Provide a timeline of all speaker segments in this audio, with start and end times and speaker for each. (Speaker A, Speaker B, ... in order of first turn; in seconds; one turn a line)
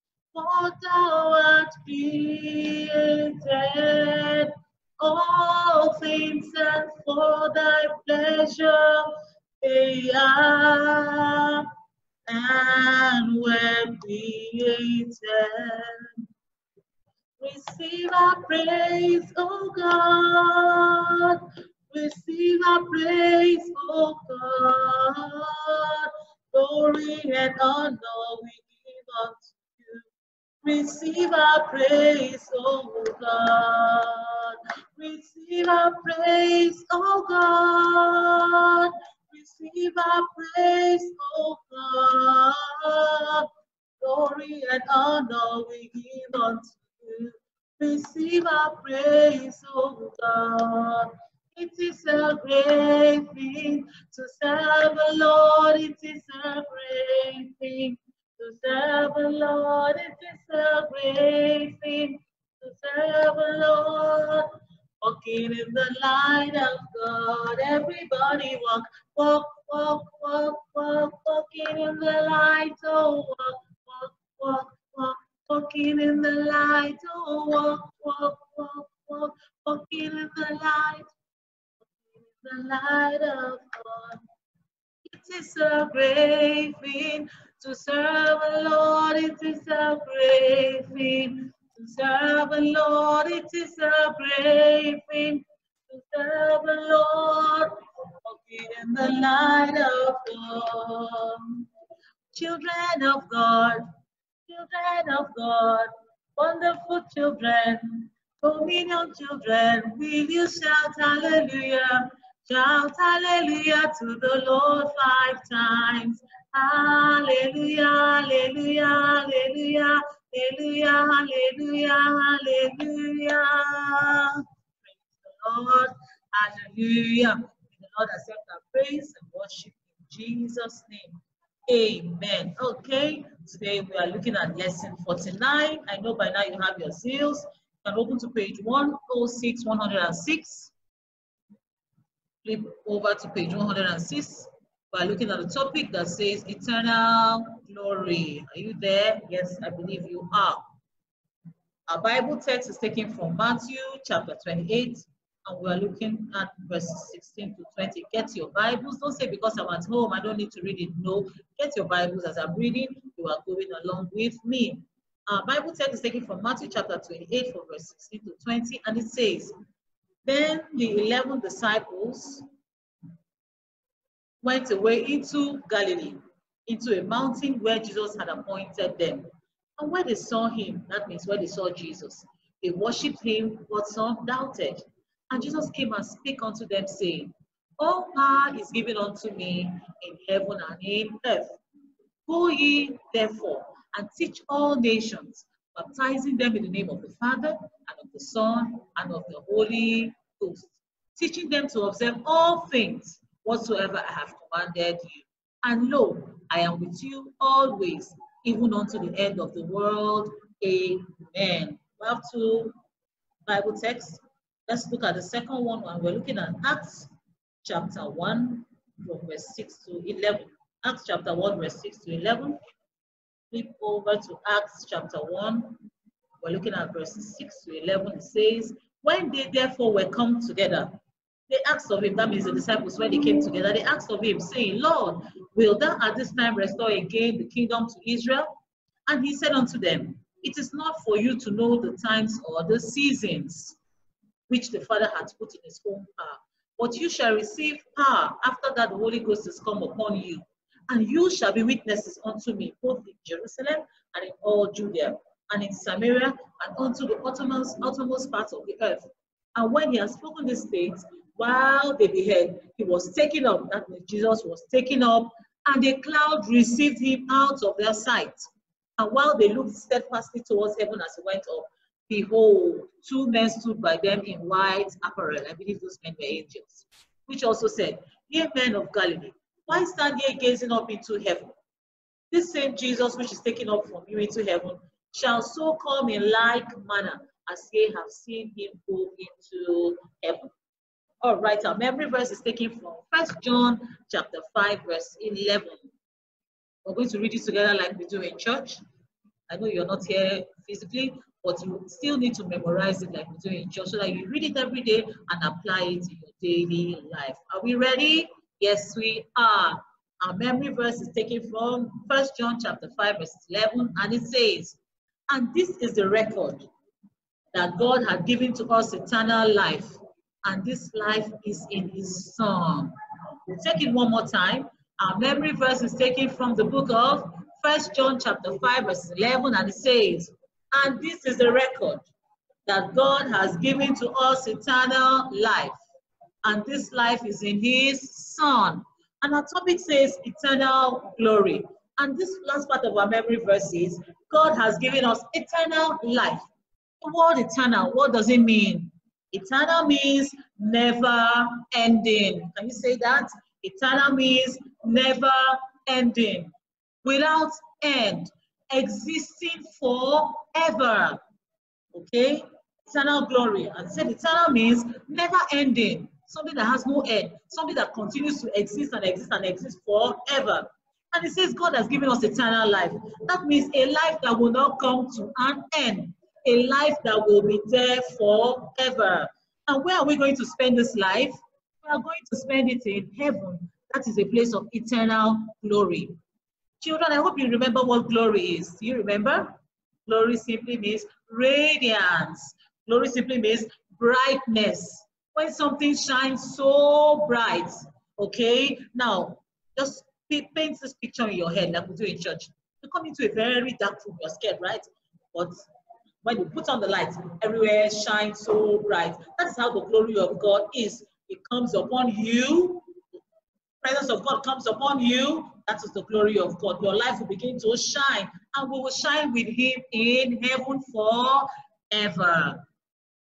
Speaker A: 0.3-9.1
Speaker A: 9.6-11.7
Speaker A: 12.3-16.2
Speaker A: 17.4-30.1
Speaker A: 30.6-43.5
Speaker A: 44.0-64.5
Speaker A: 65.0-81.1
Speaker A: 82.2-84.2
Speaker A: 85.1-101.6
Speaker A: 102.3-103.8
Speaker A: 104.5-140.7
Speaker A: 142.4-150.6
Speaker A: 151.9-169.5
Speaker A: 170.2-172.4
Speaker A: 174.4-191.6
Speaker A: 192.2-212.7
Speaker A: 213.4-217.1
Speaker A: 217.6-222.6
Speaker A: 223.5-225.8
Speaker A: 226.4-230.9
Speaker A: 231.5-238.5
Speaker A: 239.1-243.8
Speaker A: 244.5-268.4
Speaker A: 269.0-281.5
Speaker A: 282.3-290.5
Speaker A: 291.2-295.9
Speaker A: 296.8-298.8
Speaker A: 299.5-314.8
Speaker A: 315.3-316.7
Speaker A: 317.5-322.9
Speaker A: 323.5-332.1
Speaker A: 332.6-335.8
Speaker A: 336.4-346.5
Speaker A: 347.0-356.5
Speaker A: 357.0-361.2
Speaker A: 361.9-386.1
Speaker A: 386.8-405.6
Speaker A: 406.2-412.8
Speaker A: 413.8-422.6